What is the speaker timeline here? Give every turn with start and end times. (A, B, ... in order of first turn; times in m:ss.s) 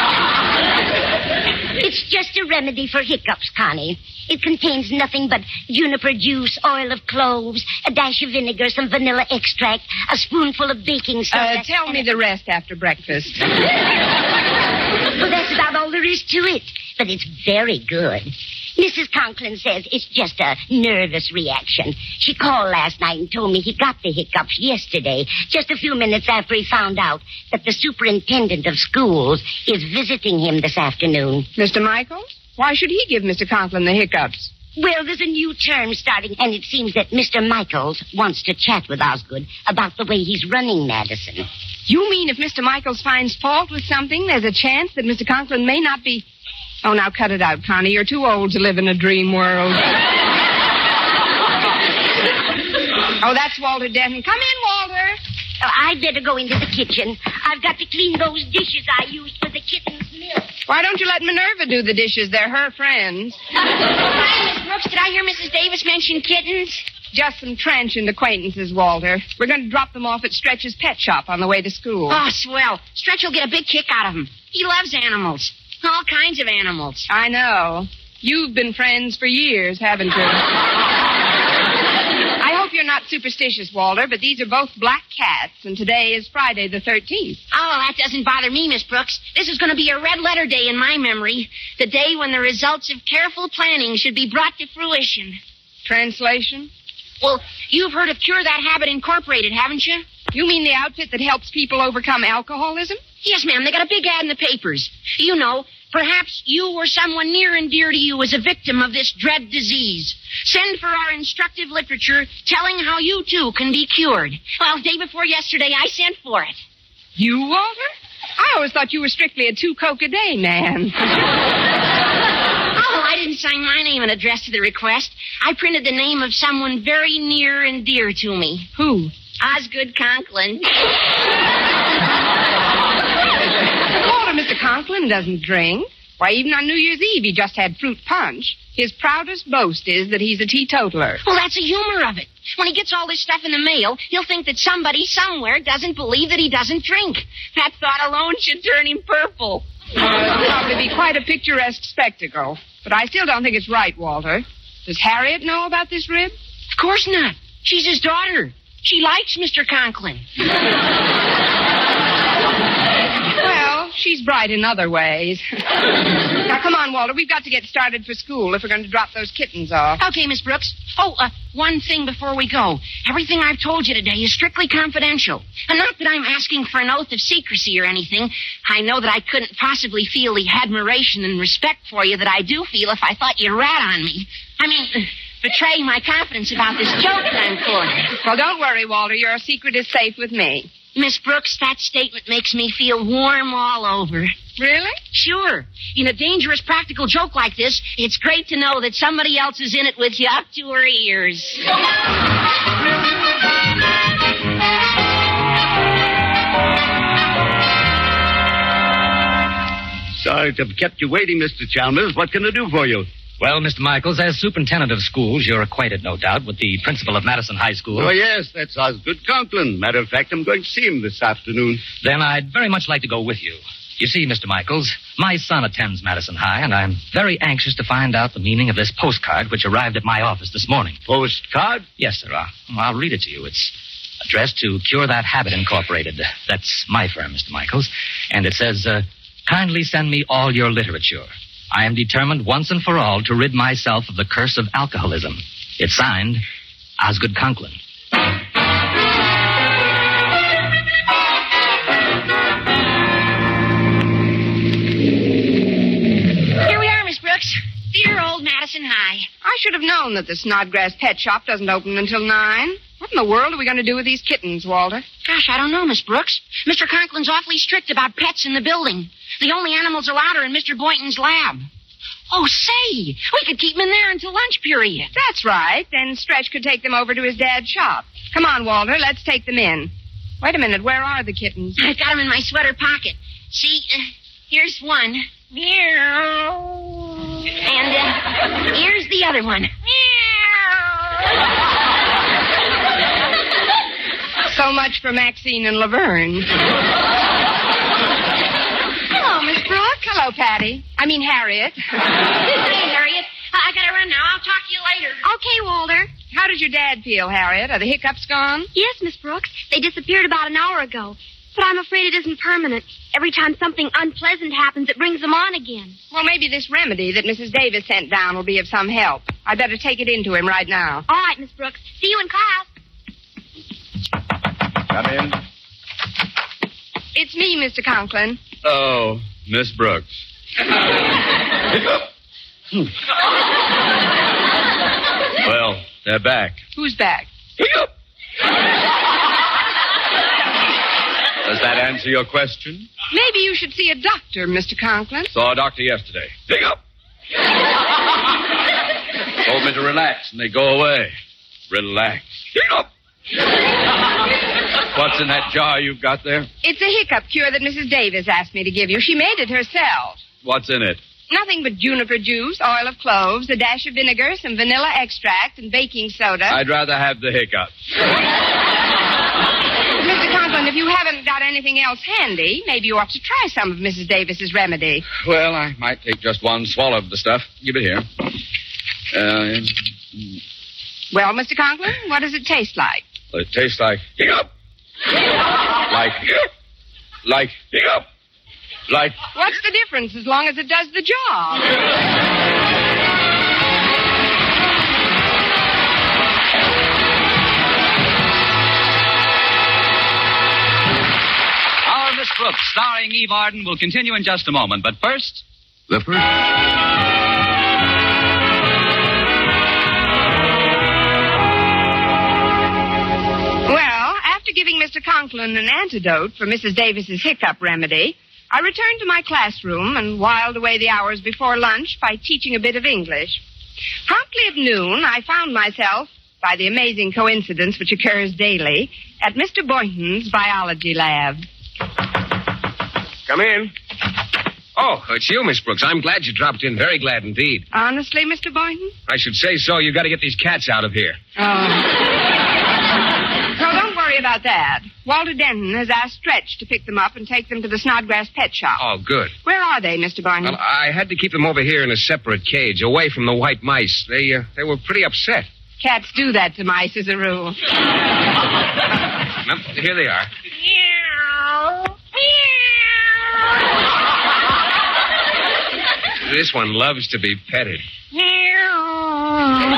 0:01.8-0:12.1 A
0:11.3-0:13.4 B
0:15.1-0:31.5 A
0:31.6-0:34.5 B
0:34.8-0:41.5 A
0:41.9-0:46.2 B
0:46.8-0:49.9 B
0:53.2-0:55.2 B
0:55.6-1:00.5 A
1:00.7-1:03.4 B
1:04.0-1:06.8 C
1:07.1-1:12.2 B
1:12.1-1:17.1 C
1:17.1-1:20.5 B
1:22.4-1:27.4 B
1:27.5-1:35.4 C
1:35.8-1:36.7 B
1:37.2-1:40.2 C
1:40.3-1:43.0 B
1:43.2-1:56.6 C
1:57.2-2:01.2 B
2:02.7-2:08.7 C
2:08.8-2:09.1 B
2:09.4-2:10.7 C
2:13.9-2:21.2 B
2:21.2-2:29.7 C
2:30.0-2:36.3 B
2:36.7-2:40.2 C
2:43.4-2:45.4 B
2:46.4-2:50.0 B
2:50.0-3:08.1 C
3:08.2-3:10.7 B
3:10.9-3:14.4 C
3:14.6-3:15.0 B
3:15.1-3:21.6 C
3:30.2-3:33.1 D
3:33.4-3:38.1 E
3:38.0-3:41.9 D
3:42.0-3:51.0 E
3:51.1-3:51.9 D
3:52.0-4:06.4 E
4:07.0-4:07.8 E
4:16.6-4:19.3 C
4:19.4-4:25.1 B
4:25.2-4:31.7 C
4:32.3-4:35.1 C
4:35.1-4:41.8 B
4:41.8-4:46.8 C
4:47.5-4:49.7 C
4:54.5-4:56.5 B
4:59.8-5:02.0 B
5:02.5-5:05.2 C
5:05.2-5:06.1 F
5:06.3-5:08.7 B
5:08.8-5:16.0 F
5:16.1-5:21.0 B
5:21.1-5:22.7 F
5:24.9-5:25.4 G
5:27.2-5:28.4 B
5:28.6-5:30.2 G
5:31.7-5:32.0 G
5:35.4-5:36.6 G
5:36.8-5:37.3 B
5:37.6-5:37.9 G
5:41.4-5:42.9 G
5:43.1-5:45.3 B
5:45.3-5:46.8 G
5:49.4-5:51.2 G
5:51.7-5:52.9 G
5:54.9-5:56.5 G
5:56.6-6:00.3 B
6:00.4-6:01.0 G
6:01.3-6:06.6 B
6:06.5-6:07.7 G
6:10.0-6:15.0 B
6:15.2-6:18.1 G
6:19.1-6:19.9 G
6:21.1-6:23.0 B
6:23.3-6:24.5 G
6:25.9-6:26.5 G
6:27.2-6:28.1 G
6:28.9-6:29.2 G
6:29.3-6:31.7 B
6:41.8-6:45.4 H
6:53.7-7:03.4 B
7:04.1-7:11.4 B
7:13.3-7:13.7 I
7:14.8-7:17.7 I
7:17.7-7:18.9 B
7:19.1-7:21.2 I
7:21.4-7:21.9 B
7:23.6-7:28.8 B
7:28.8-7:29.4 I
7:29.4-7:30.6 B
7:30.4-7:35.5 I
7:35.8-7:37.6 B
7:39.4-7:40.3 I
7:46.2-7:47.8 I